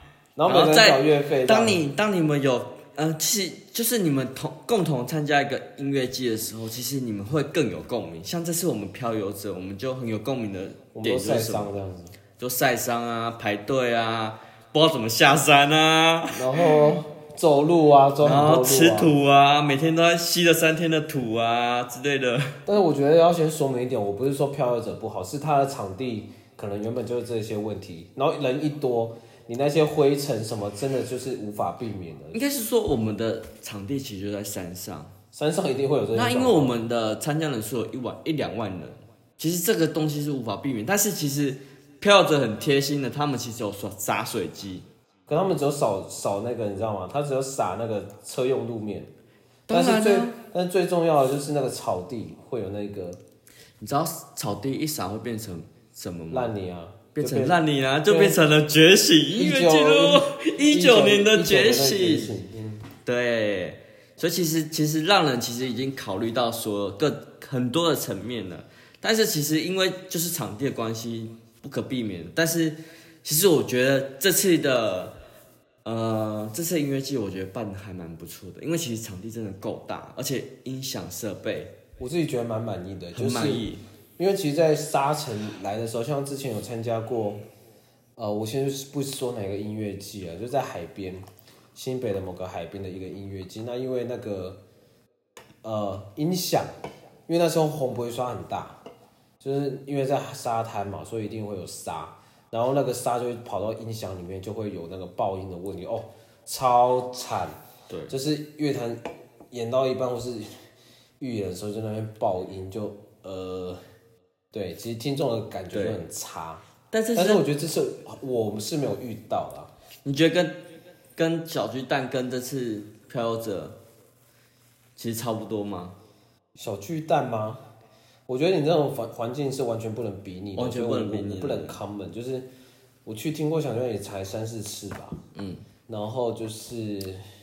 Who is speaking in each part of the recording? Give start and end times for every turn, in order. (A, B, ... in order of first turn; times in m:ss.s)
0:00.4-0:01.8 A
0:00.5-0:11.7 B
0:10.9-0:12.2 A
0:12.4-0:16.8 B
0:16.3-0:19.1 A
0:18.2-0:22.6 B
0:22.7-0:32.4 A
0:32.3-0:35.1 B
0:35.3-0:36.8 A
0:36.1-0:44.9 B
0:45.3-0:49.1 A
0:49.7-0:50.4 B
0:49.7-0:53.2 A
0:53.8-0:56.5 B
0:56.3-0:58.4 A
0:57.2-1:02.3 B
0:59.4-1:02.8 A
1:03.0-1:15.2 B
1:15.8-1:21.7 B
1:22.0-1:23.7 A
1:23.2-1:23.8 B
1:24.2-1:27.4 A
1:28.2-1:34.6 A
1:35.6-1:36.7 A
1:37.3-1:38.8 A
1:39.4-1:47.6 A
1:48.1-1:50.6 A
1:51.2-1:53.8 A
1:54.5-1:59.7 A
1:55.7-1:56.0 B
1:56.9-1:57.4 B
2:00.0-2:00.6 B
2:01.2-2:03.8 B
2:05.0-2:06.0 B
2:06.6-2:07.6 A
2:08.3-2:12.5 A
2:10.6-2:11.8 B
2:13.0-2:15.2 A
2:15.3-2:15.6 B
2:15.9-2:17.2 A